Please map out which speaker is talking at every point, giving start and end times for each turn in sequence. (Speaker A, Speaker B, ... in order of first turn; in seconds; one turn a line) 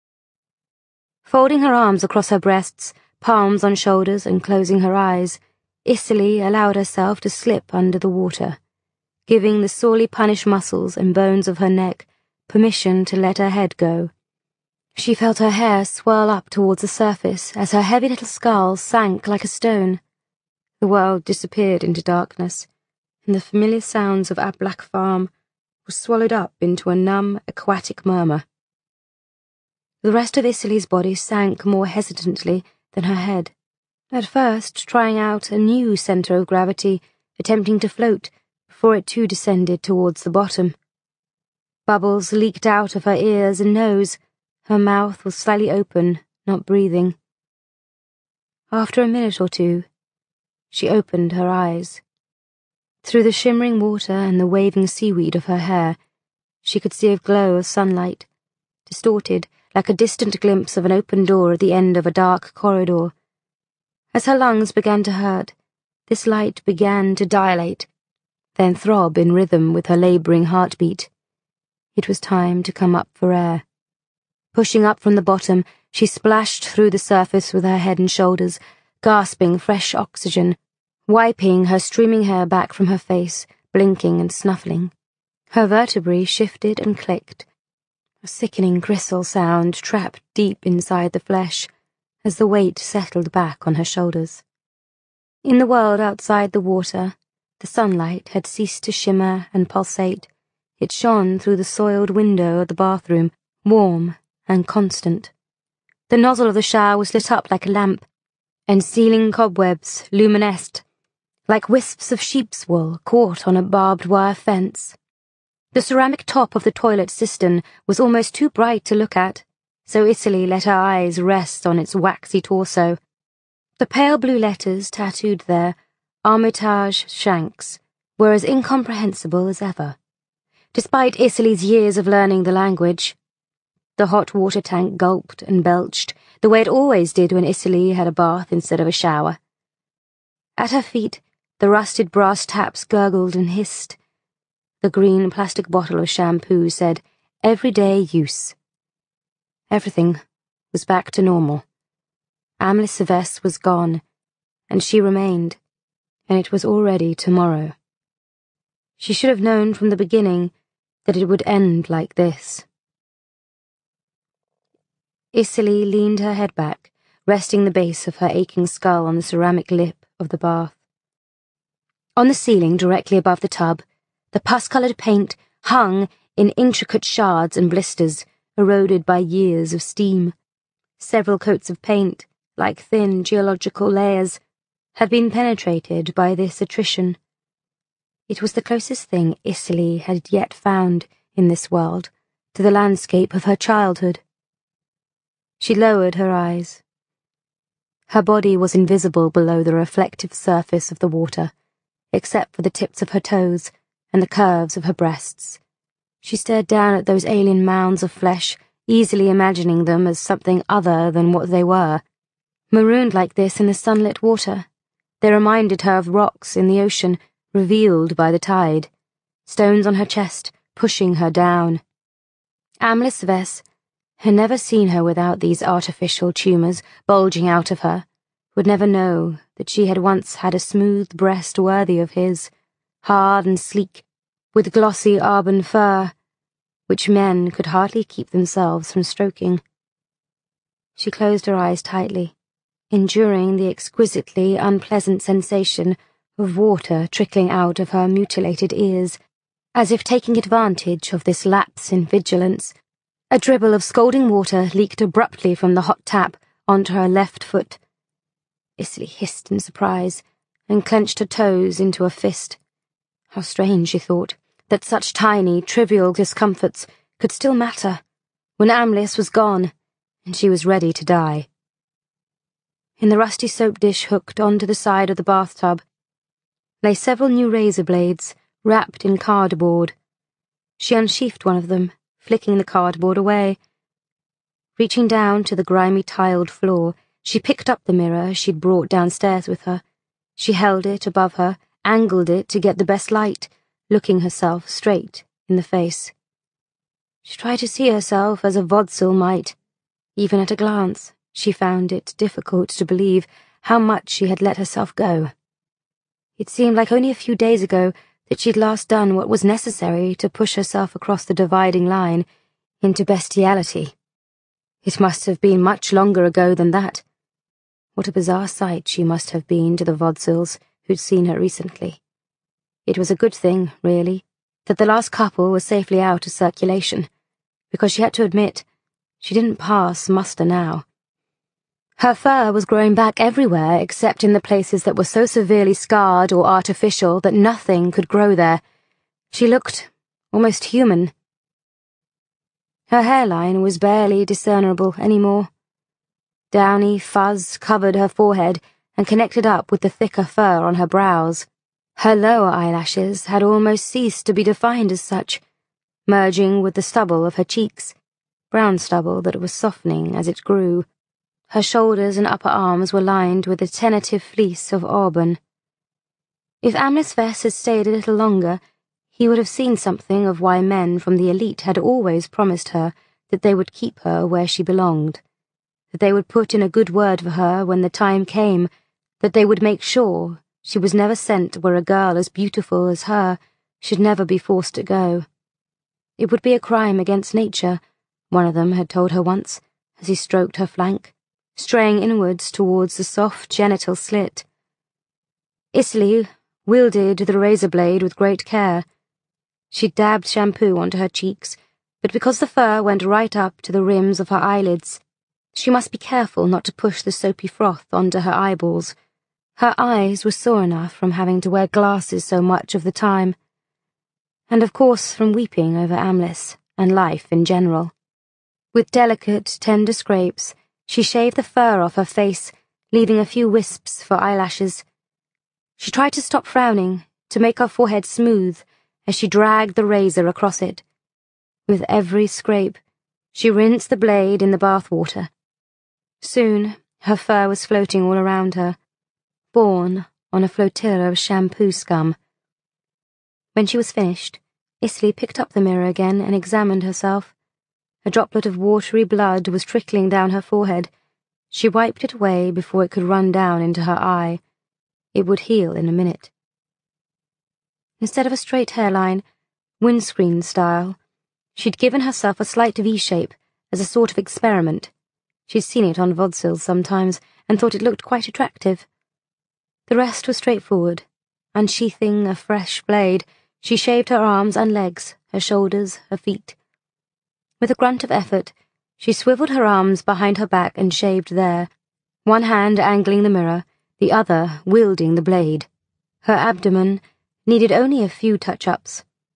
Speaker A: 1.2-8.6
Speaker A: 9.3-14.1
Speaker A: 14.9-20.0
Speaker A: 20.8-22.7
Speaker A: 23.2-25.3
Speaker A: 25.9-28.4
Speaker A: 30.0-33.5
Speaker A: 34.1-40.8
Speaker A: 41.9-47.1
Speaker A: 48.7-49.9
Speaker A: 50.7-52.0
Speaker A: 53.0-56.0
Speaker A: 56.6-58.3
Speaker A: 58.9-63.1
Speaker A: 64.1-65.5
Speaker A: 66.1-67.9
Speaker A: 68.5-71.1
Speaker A: 71.9-73.6
Speaker A: 74.5-84.9
Speaker A: 85.5-87.5
Speaker A: 88.2-91.7
Speaker A: 92.2-94.4
Speaker A: 95.4-100.3
Speaker A: 100.8-105.3
Speaker A: 106.1-108.0
Speaker A: 108.7-110.8
Speaker A: 111.5-115.0
Speaker A: 115.7-123.0
Speaker A: 123.8-130.0
Speaker A: 130.7-133.2
Speaker A: 134.0-139.4
Speaker A: 140.6-144.0
Speaker A: 144.8-148.5
Speaker A: 149.7-150.2
Speaker A: 150.7-151.6
Speaker A: 152.6-154.0
Speaker A: 154.7-155.6
Speaker A: 156.3-157.7
Speaker A: 159.0-160.5
Speaker A: 161.1-162.7
Speaker A: 165.3-170.8
Speaker A: 172.2-180.3
Speaker A: 181.0-184.4
Speaker A: 184.9-187.2
Speaker A: 188.3-194.2
Speaker A: 195.6-196.8
Speaker A: 198.1-201.5
Speaker A: 202.1-205.6
Speaker A: 206.2-212.0
Speaker A: 212.7-214.7
Speaker A: 215.2-218.9
Speaker A: 219.4-221.8
Speaker A: 222.8-223.6
Speaker A: 224.2-232.5
Speaker A: 233.0-236.1
Speaker A: 236.9-239.6
Speaker A: 241.0-242.3
Speaker A: 242.9-249.2
Speaker A: 249.7-252.7
Speaker A: 253.3-257.8
Speaker A: 258.8-262.6
Speaker A: 263.3-268.0
Speaker A: 268.6-269.7
Speaker A: 270.2-271.5
Speaker A: 273.0-275.8
Speaker A: 276.8-279.9
Speaker A: 280.8-283.6
Speaker A: 284.8-289.8
Speaker A: 290.4-296.1
Speaker A: 297.2-299.6
Speaker A: 300.1-305.3
Speaker A: 306.4-312.2
Speaker A: 312.8-313.9
Speaker A: 314.8-317.0
Speaker A: 317.9-322.0
Speaker A: 322.9-327.1
Speaker A: 327.7-328.6
Speaker A: 329.2-330.8
Speaker A: 332.0-338.6
Speaker A: 339.3-341.1
Speaker A: 342.9-345.5
Speaker A: 346.5-355.4
Speaker A: 356.1-357.9
Speaker A: 358.5-360.8
Speaker A: 361.5-365.4
Speaker A: 366.6-368.6
Speaker A: 369.1-375.2
Speaker A: 375.9-378.7
Speaker A: 379.2-385.2
Speaker A: 386.2-394.4
Speaker A: 395.7-398.8
Speaker A: 399.7-405.0
Speaker A: 405.5-408.9
Speaker A: 409.6-413.4
Speaker A: 414.5-417.9
Speaker A: 418.7-424.8
Speaker A: 425.8-430.8
Speaker A: 431.7-432.8
Speaker A: 433.3-435.3
Speaker A: 436.2-438.8
Speaker A: 439.5-442.1
Speaker A: 443.5-447.3
Speaker A: 448.0-450.9
Speaker A: 451.5-454.4
Speaker A: 455.1-456.3
Speaker A: 458.0-459.2
Speaker A: 459.8-461.0
Speaker A: 461.5-464.9
Speaker A: 465.5-468.9
Speaker A: 469.9-476.6
Speaker A: 477.6-481.7
Speaker A: 482.2-485.7
Speaker A: 486.2-489.0